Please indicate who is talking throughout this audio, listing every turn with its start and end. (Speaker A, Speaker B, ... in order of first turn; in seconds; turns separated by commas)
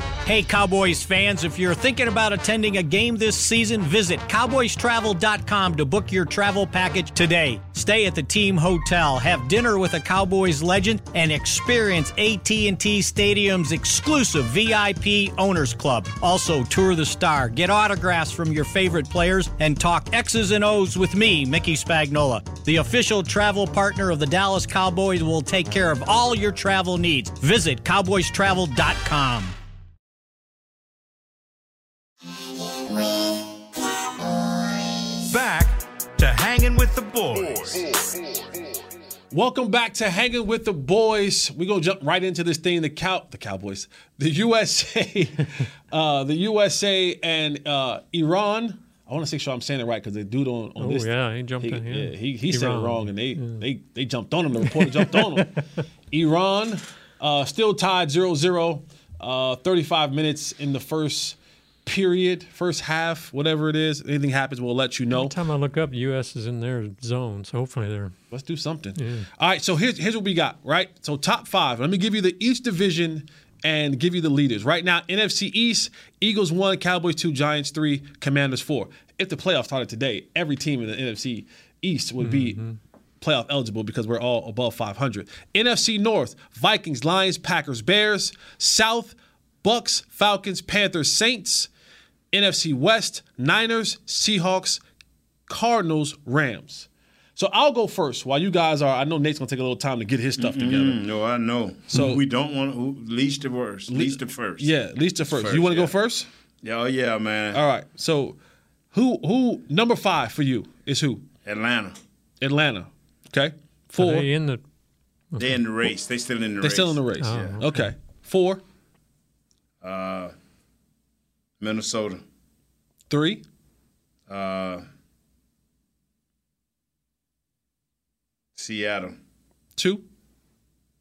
Speaker A: 0.2-29.6, Speaker B: 35.3-37.9, Speaker C: 39.3-55.6, Speaker D: 50.8-53.6, Speaker D: 54.6-55.5, Speaker C: 56.1-65.3, Speaker D: 65.1-68.1, Speaker C: 68.3-82.6, Speaker D: 69.0-69.3, Speaker D: 82.2-82.8, Speaker C: 83.2-91.7, Speaker C: 92.3-94.8, Speaker C: 95.5-101.0, Speaker E: 100.4-104.7, Speaker C: 101.9-102.2, Speaker C: 103.9-106.3, Speaker E: 105.3-106.0, Speaker E: 106.6-107.6, Speaker C: 107.5-108.4, Speaker C: 108.9-111.2, Speaker E: 111.5-112.0, Speaker C: 112.4-114.3, Speaker D: 114.0-114.6, Speaker D: 115.3-115.6, Speaker E: 115.4-117.6, Speaker C: 116.6-118.6, Speaker D: 117.2-117.9, Speaker E: 119.8-120.3, Speaker E: 121.6-122.2, Speaker C: 123.1-123.4, Speaker E: 124.3-124.8, Speaker E: 128.6-129.2, Speaker C: 129.8-130.0